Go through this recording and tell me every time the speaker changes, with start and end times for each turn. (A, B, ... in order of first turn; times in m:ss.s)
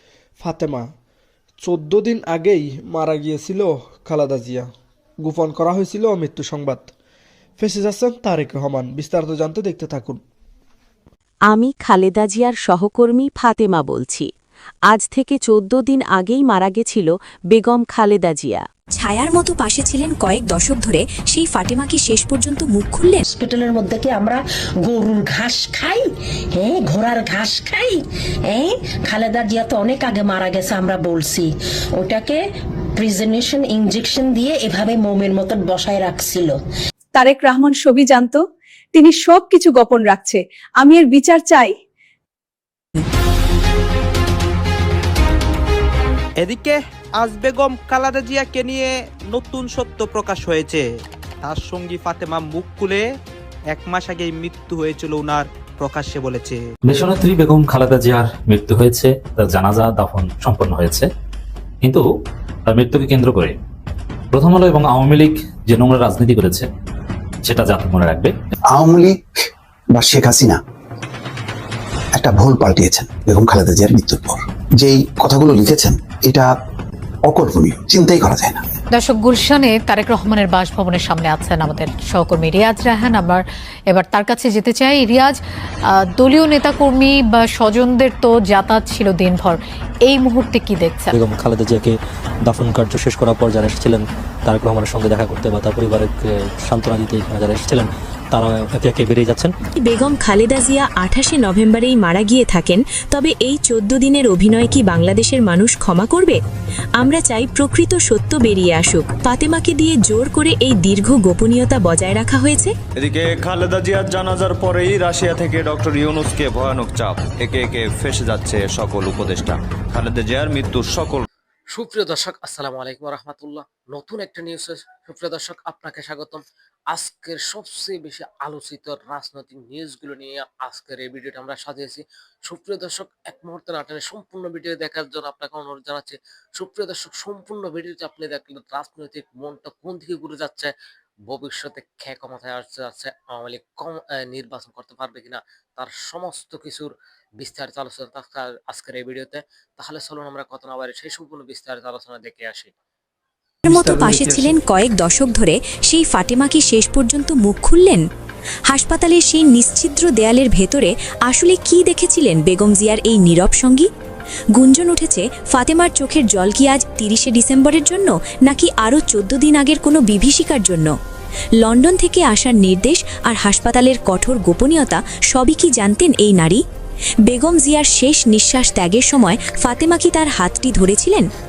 0:00.4-0:00.9 A
0:01.6-0:04.7 A
0:05.2-0:06.9 A
0:07.6-0:10.2 A
0:11.5-0:14.3 B
0:14.9-0:18.7 B
0:18.9-0:23.2 C
0:23.3-0:32.4 D
0:33.0-0:36.6 D
0:37.2-0:38.4 E
0:38.9-0:41.7 E
0:46.4-0:50.8 F
0:51.5-0:53.0 F
0:53.7-0:56.6 F
0:56.9-1:01.1 G
1:02.7-1:03.6 G
1:04.3-1:06.7 G
1:07.4-1:08.3 G
1:08.7-1:09.4 H
1:09.9-1:10.6 H
1:12.2-1:16.5 H
1:17.3-1:18.6 H
1:18.9-1:25.4 I
1:26.0-1:31.2 I
1:31.2-1:31.9 J
1:32.5-1:36.0 J
1:36.7-1:39.4 J
1:39.8-1:46.4 C
1:47.0-1:52.7 C
1:53.0-2:01.2 K
2:01.7-2:20.7 L
2:21.3-2:26.9 L
2:27.4-2:32.7 L
2:33.7-2:38.0 C
2:38.7-2:43.9 C
2:44.6-2:50.9 C
2:51.6-2:56.6 C
2:57.3-3:01.3 C